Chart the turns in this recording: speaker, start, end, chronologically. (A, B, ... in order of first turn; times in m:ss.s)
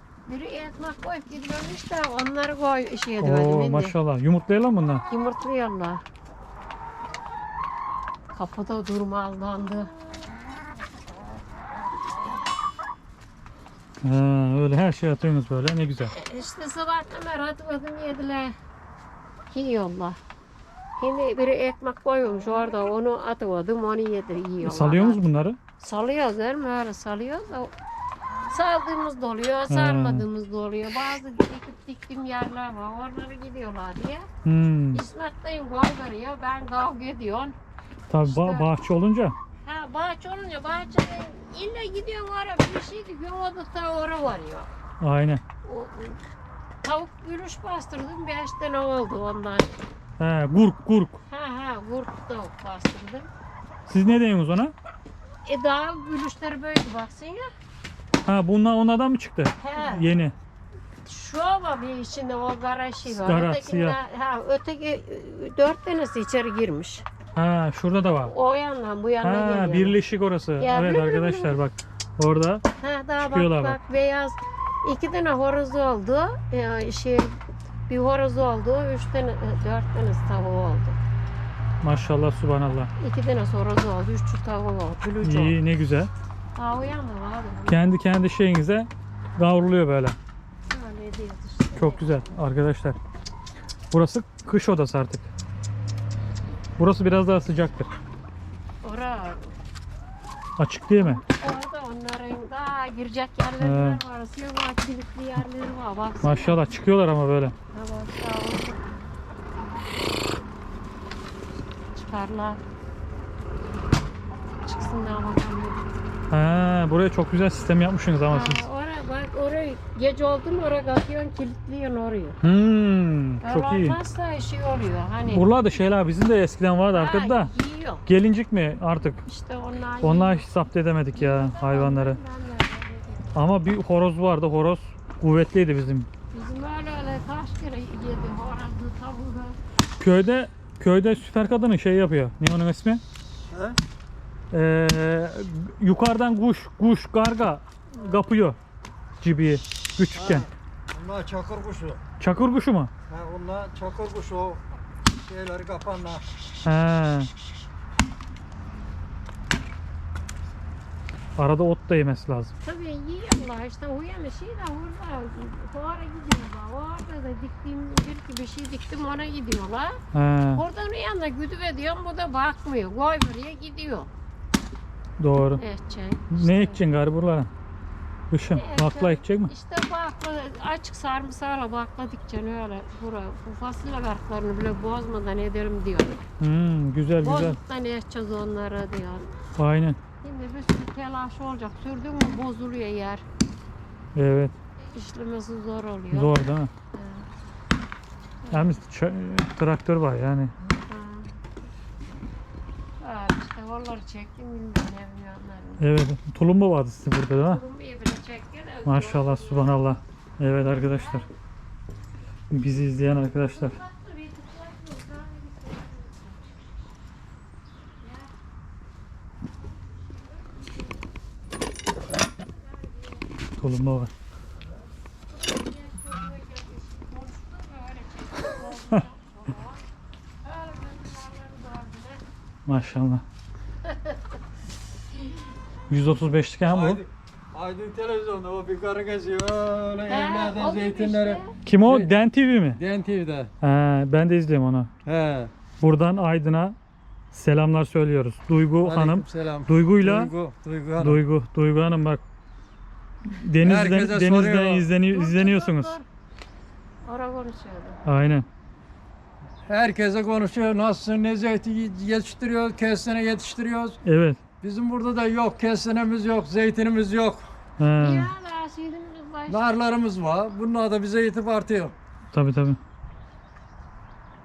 0:00.2-0:04.0 A
0:03.2-0:05.0 B
0:05.1-0:06.0 A
0:08.3-0:09.9 A
0:14.0-0:16.1 B
0:16.1-0:18.5 A
0:19.5-0:20.2 A
0:21.0-0:25.2 A
0:24.6-0:25.6 B
0:25.8-0:27.7 A
0:28.5-0:34.3 A
0:29.7-0:30.2 B
0:34.4-0:35.0 B
0:34.9-0:37.6 A
0:38.1-0:39.4 B
0:38.2-0:38.7 A
0:39.6-0:44.7 A
0:45.0-0:45.4 B
0:45.6-0:46.2 A
0:46.8-0:49.7 A
0:50.2-0:51.2 B
0:51.3-0:53.3 A
0:53.9-0:54.7 B
0:55.4-0:57.5 A
0:58.2-1:00.3 B
0:59.6-1:00.1 A
1:01.0-1:07.0 A
1:03.0-1:04.0 B
1:07.3-1:08.3 B
1:08.2-1:10.0 A
1:09.2-1:12.6 B
1:10.6-1:11.6 A
1:12.8-1:17.3 A
1:13.2-1:13.8 B
1:17.9-1:21.0 A
1:21.8-1:22.9 B
1:23.0-1:25.6 A
1:25.2-1:26.1 B
1:26.5-1:27.8 A
1:27.7-1:30.2 B
1:30.7-1:32.0 A
1:31.7-1:33.0 B
1:33.9-1:35.3 B
1:36.8-1:37.9 B
1:38.8-1:39.5 A
1:40.6-1:41.2 B
1:41.0-1:46.6 A
1:43.6-1:44.0 B
1:46.2-1:47.5 B
1:47.7-1:48.8 A
1:51.9-1:52.6 A
1:54.6-1:55.8 A
1:56.3-1:58.6 B
1:58.3-2:02.4 A
2:02.4-2:04.0 B
2:03.4-2:05.4 A
2:05.3-2:07.5 B
2:06.9-2:08.0 A
2:08.0-2:09.2 B
2:09.2-2:10.4 A
2:10.0-2:12.2 B
2:11.1-2:13.4 A
2:13.3-2:16.1 B
2:16.3-2:19.6 A
2:20.0-2:23.0 B
2:23.5-2:23.8 C
2:24.5-2:28.6 B
2:29.2-2:30.5 B
2:30.1-2:32.0 C
2:32.2-2:32.9 B
2:33.1-2:34.6 C
2:35.2-2:36.2 C
2:36.6-2:37.3 B
2:41.4-2:42.5 B
2:42.6-2:50.0 A
2:50.1-2:50.6 B
2:50.5-2:54.1 A
2:55.2-2:55.6 B
2:55.6-2:56.8 A
2:56.3-2:57.5 B
2:58.3-2:59.5 B
2:58.5-3:06.2 A
3:06.4-3:07.6 B
3:07.2-3:09.3 A
3:09.6-3:10.0 B
3:10.2-3:13.2 A
3:14.1-3:14.5 B
3:14.9-3:17.2 A
3:16.1-3:16.7 B
3:18.4-3:18.8 A
3:18.5-3:20.5 B
3:20.9-3:21.3 A
3:23.0-3:25.9 A
3:25.8-3:27.6 B
3:27.3-3:29.8 A
3:28.8-3:31.2 B
3:30.7-3:31.3 A
3:32.5-3:33.8 B
3:33.3-3:36.5 A
3:38.0-3:38.3 A
3:43.6-3:44.1 B
3:45.3-3:49.8 A
3:50.4-3:52.2 A
3:52.7-3:53.2 B
3:53.8-3:54.2 A
3:55.9-3:57.0 B
3:56.6-4:02.1 C
4:00.1-4:01.5 A
4:01.6-4:02.8 B
4:02.8-4:03.5 C
4:03.6-4:04.9 B
4:05.0-4:05.5 C
4:05.8-4:06.8 B
4:07.3-4:10.3 B
4:08.8-4:11.2 C
4:11.0-4:12.2 B
4:13.2-4:16.0 B
4:13.6-4:14.9 C
4:15.0-4:16.0 A
4:17.0-4:18.0 A
4:18.0-4:18.5 B
4:19.7-4:24.0 C
4:24.0-4:24.4 B
4:24.6-4:27.5 C
4:27.8-4:28.3 B
4:28.0-4:29.7 A
4:29.5-4:31.9 C
4:32.3-4:32.8 B